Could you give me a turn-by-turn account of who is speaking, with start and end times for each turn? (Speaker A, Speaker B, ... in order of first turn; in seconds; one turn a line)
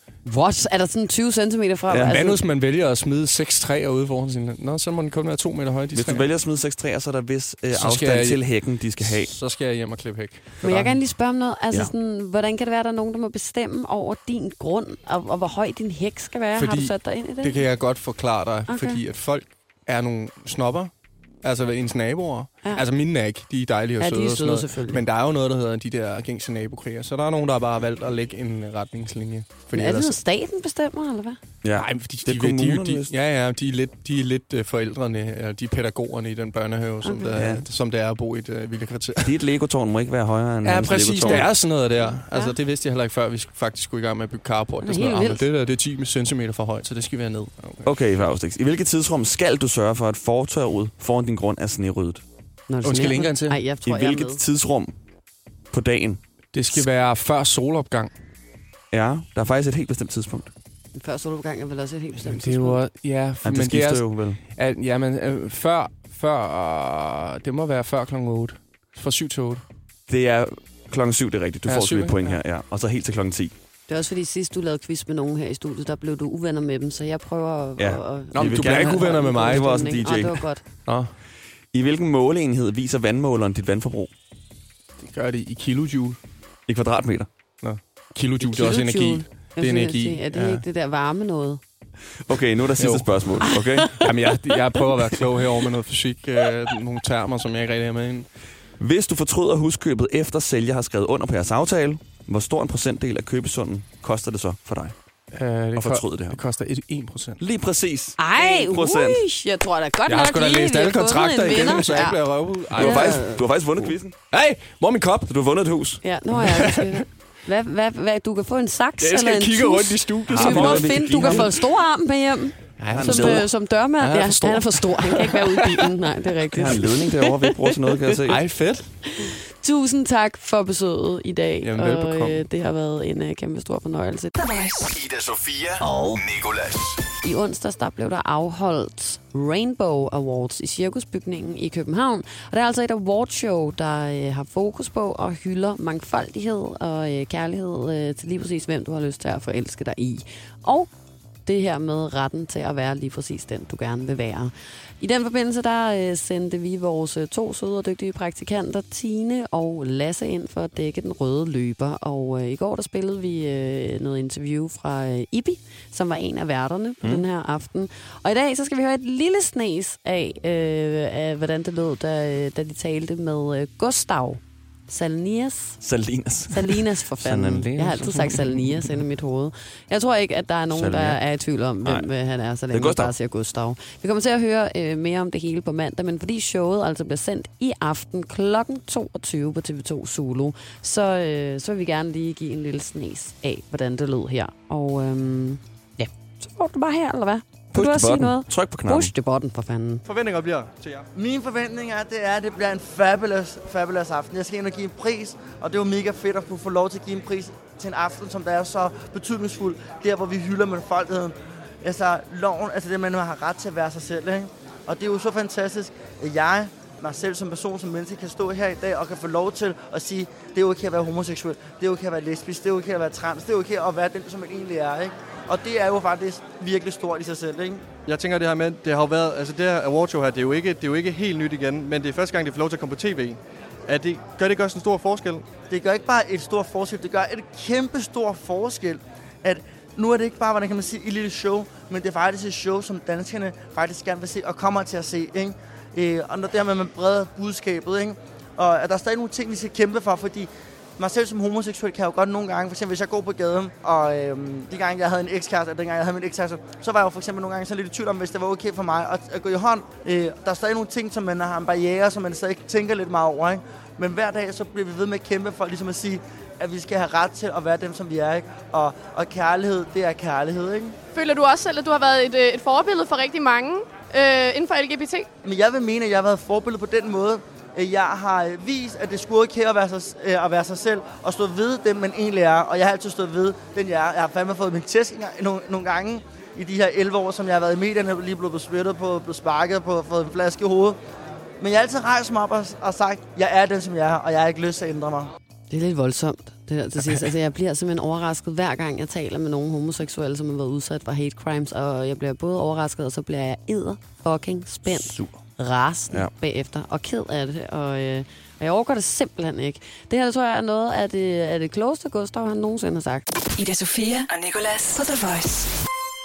Speaker A: 0.2-2.4
Speaker B: 1.9-2.1
Speaker C: 2.0-6.3
Speaker B: 5.9-9.3
Speaker C: 7.7-8.4
Speaker C: 9.0-11.0
Speaker A: 10.6-17.6
Speaker C: 16.5-20.9
Speaker A: 18.7-19.0
Speaker C: 21.4-30.2
Speaker A: 24.0-25.0
Speaker A: 29.7-31.4
Speaker B: 31.6-33.1
Speaker C: 31.7-39.4
Speaker A: 37.0-37.3
Speaker B: 37.3-37.6
Speaker B: 39.2-41.5
Speaker C: 40.6-47.9
Speaker A: 41.2-41.5
Speaker A: 42.2-42.5
Speaker A: 44.8-45.4
Speaker B: 47.8-52.2
Speaker A: 52.7-54.4
Speaker C: 52.8-53.6
Speaker B: 53.8-54.9
Speaker B: 55.7-56.2
Speaker C: 56.5-58.1
Speaker B: 58.9-60.5
Speaker A: 61.0-62.8
Speaker C: 62.1-69.6
Speaker B: 63.4-64.4
Speaker B: 70.1-73.5
Speaker C: 71.7-72.4
Speaker A: 73.9-80.6
Speaker B: 77.8-80.5
Speaker C: 78.3-79.7
Speaker C: 80.8-81.1
Speaker B: 81.7-84.1
Speaker C: 85.0-86.2
Speaker B: 86.7-87.3
Speaker C: 87.6-90.6
Speaker A: 88.4-91.6
Speaker B: 92.2-94.0
Speaker C: 92.8-93.1
Speaker A: 93.4-94.0
Speaker C: 94.0-98.3
Speaker B: 98.8-104.9
Speaker C: 105.3-107.4
Speaker B: 105.8-106.4
Speaker B: 107.4-109.2
Speaker A: 108.2-113.4
Speaker C: 110.1-113.3
Speaker B: 112.7-114.2
Speaker C: 114.3-115.3
Speaker B: 115.3-116.0
Speaker A: 116.0-128.2
Speaker C: 116.4-117.0
Speaker C: 119.0-121.6
Speaker B: 120.3-121.5
Speaker C: 122.8-126.0
Speaker B: 122.9-123.5
Speaker B: 126.5-128.4
Speaker C: 128.2-128.9
Speaker A: 129.1-134.3
Speaker C: 131.6-132.4
Speaker D: 134.3-135.0
Speaker E: 134.9-137.0
Speaker A: 135.8-136.2
Speaker A: 137.2-150.9
Speaker A: 151.4-175.8
Speaker B: 175.8-178.9
Speaker A: 176.5-200.0
Speaker B: 180.7-181.2
Speaker B: 181.8-182.1
Speaker B: 182.7-183.1
Speaker B: 197.7-199.1
Speaker F: 200.0-201.1
Speaker G: 201.1-227.8
Speaker F: 228.1-235.5
Speaker G: 235.6-271.0
Speaker H: 271.1-275.3
Speaker G: 275.4-291.0
Speaker G: 291.6-295.3
Speaker A: 295.7-313.2
Speaker B: 304.9-305.4
Speaker D: 313.5-315.7